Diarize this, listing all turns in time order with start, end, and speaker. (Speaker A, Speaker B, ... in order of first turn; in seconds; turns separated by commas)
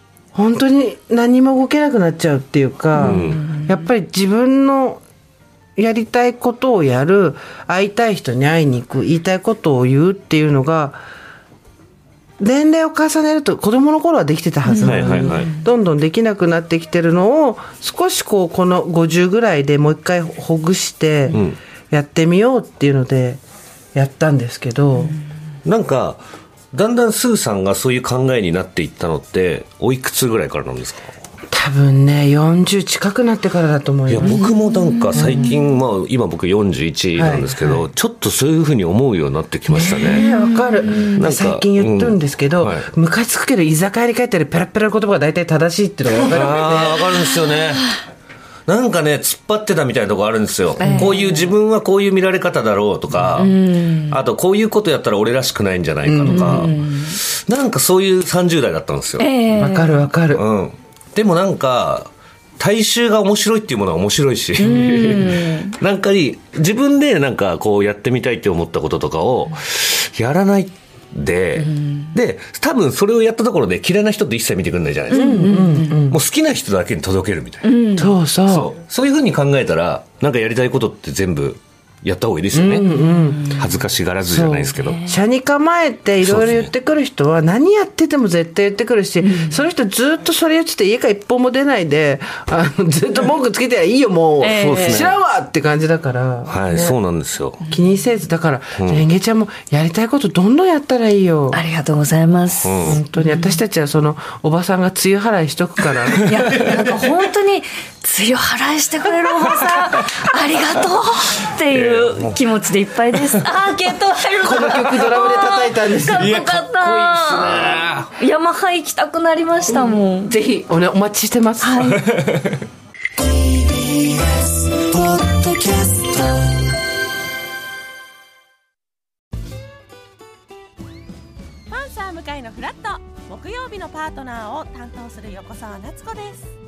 Speaker A: 0.3-5.0, Speaker B: 3.0-3.3, Speaker C: 3.0-3.4, Speaker A: 5.8-11.0, Speaker A: 12.4-23.4, Speaker C: 14.8-15.5, Speaker A: 23.9-25.1, Speaker C: 25.6-26.2, Speaker C: 26.7-31.1, Speaker A: 31.5-34.5, Speaker C: 34.1-40.3, Speaker B: 34.2-35.5, Speaker A: 35.1-35.5, Speaker A: 37.2-37.9, Speaker A: 39.8-47.2, Speaker B: 39.9-41.2, Speaker C: 41.1-42.8, Speaker C: 46.3-47.9, Speaker C: 48.7-53.5, Speaker B: 50.8-51.4, Speaker A: 50.8-51.3, Speaker B: 53.4-54.2, Speaker C: 54.1-59.3, Speaker A: 56.1-56.7, Speaker B: 56.2-57.2, Speaker B: 59.2-60.1, Speaker A: 59.5-60.4, Speaker C: 60.3-75.5, Speaker B: 64.6-65.8, Speaker B: 75.1-75.9, Speaker A: 75.1-76.2, Speaker C: 76.1-77.8, Speaker B: 77.6-78.2, Speaker A: 78.0-78.7, Speaker C: 78.5-82.9, Speaker A: 82.5-83.5, Speaker C: 83.5-85.0, Speaker A: 84.3-97.0, Speaker B: 84.8-85.2, Speaker C: 86.2-86.7, Speaker B: 89.2-89.6, Speaker B: 94.4-95.2, Speaker C: 94.5-95.2, Speaker C: 96.5-97.6, Speaker A: 97.7-101.6, Speaker C: 98.8-99.0, Speaker B: 101.5-103.0, Speaker C: 102.6-103.0, Speaker A: 102.9-106.7, Speaker B: 106.3-120.3, Speaker C: 111.7-112.4, Speaker A: 114.4-118.0, Speaker C: 116.2-116.7, Speaker C: 117.3-118.0, Speaker A: 120.3-122.0, Speaker B: 121.6-122.1, Speaker A: 123.6-126.4, Speaker D: 131.7-136.6